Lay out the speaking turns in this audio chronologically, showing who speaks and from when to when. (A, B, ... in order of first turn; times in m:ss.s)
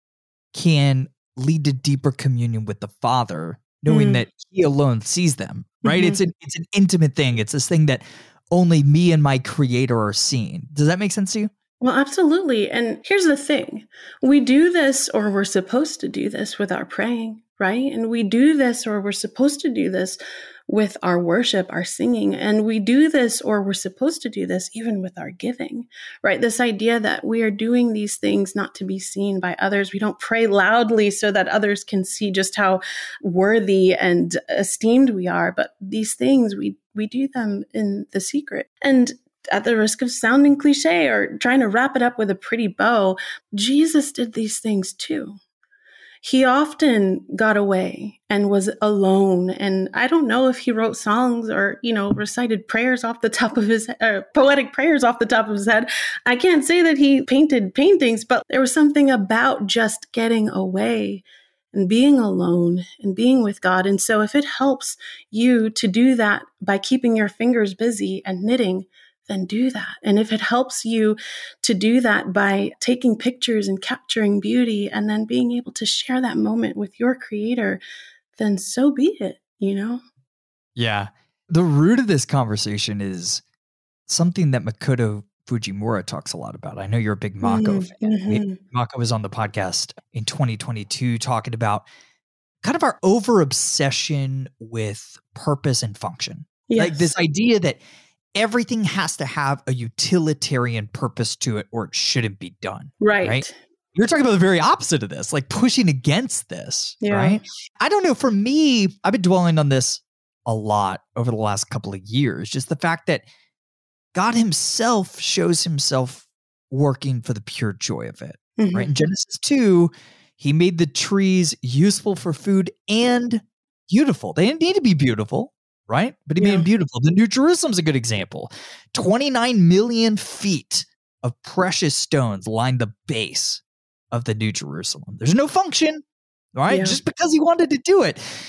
0:00.5-0:11.5 A
0:03.9-0:04.2 B
0:05.8-0:06.2 B
0:11.8-0:45.4 B
0:46.2-1:17.8 B
1:18.4-1:20.0 B
1:20.8-1:23.4 A
1:24.1-1:31.8 A
1:27.4-1:28.6 B
1:32.6-1:37.8 A
1:36.7-1:37.1 B
1:38.4-1:53.2 A
1:43.0-1:43.5 B
1:47.0-1:47.4 B
1:54.1-2:16.0 A
1:58.6-1:58.9 B
2:06.4-2:06.6 B
2:16.5-2:18.2 A
2:16.7-2:17.0 B